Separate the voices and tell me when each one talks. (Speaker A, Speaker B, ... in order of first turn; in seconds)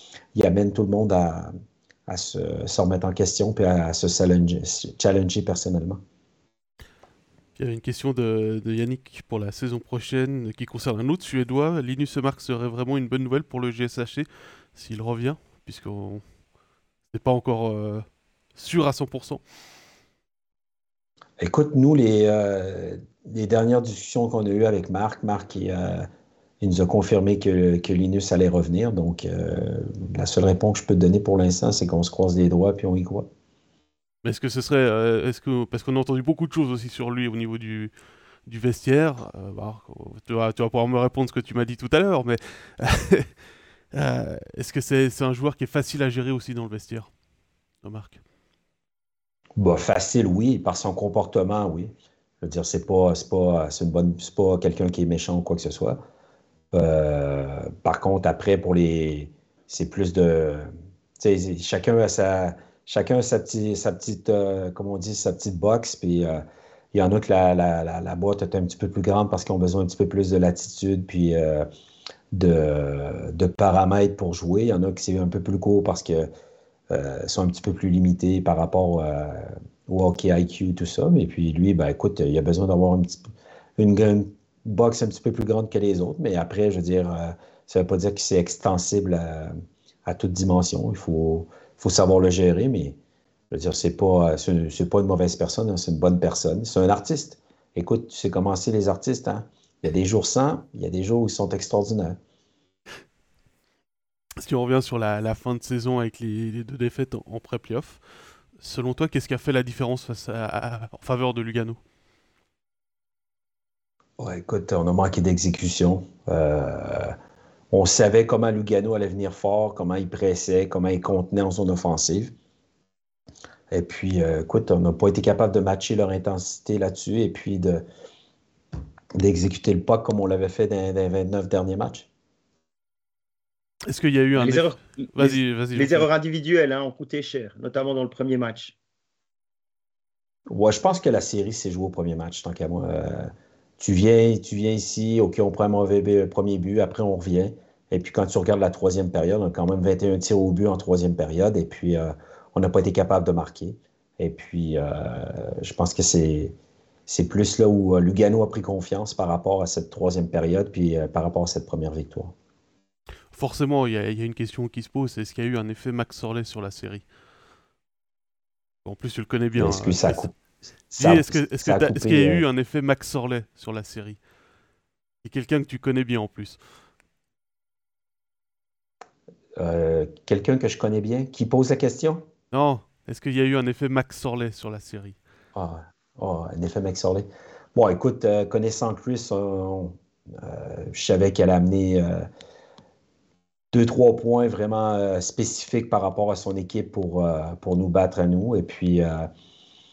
Speaker A: 0.3-1.5, 2.1-6.0, 21.4-26.1, 26.6-33.3, 49.6-56.0, 56.7-60.7, 61.2-66.4, 66.9-71.7, 72.3-76.3, 76.9-83.2, 83.8-89.5, 90.0-93.0, 93.5-102.2, 114.2-117.1, 117.7-122.3, 123.7-127.8, 129.2-132.1, 140.5-156.6, 157.1-162.3, 169.6-170.3, 171.0-172.4, 179.6-182.3, 185.6-192.3, 193.7-199.3
Speaker B: 7.6-16.2, 17.1-19.4, 34.2-37.9, 38.5-43.3, 43.9-47.1, 47.8-48.2, 104.4-108.0, 108.6-111.8, 133.9-136.1, 163.3-167.0, 168.8-170.3, 170.9-174.2, 175.2-176.6, 182.5-185.2
Speaker C: 134.4-138.8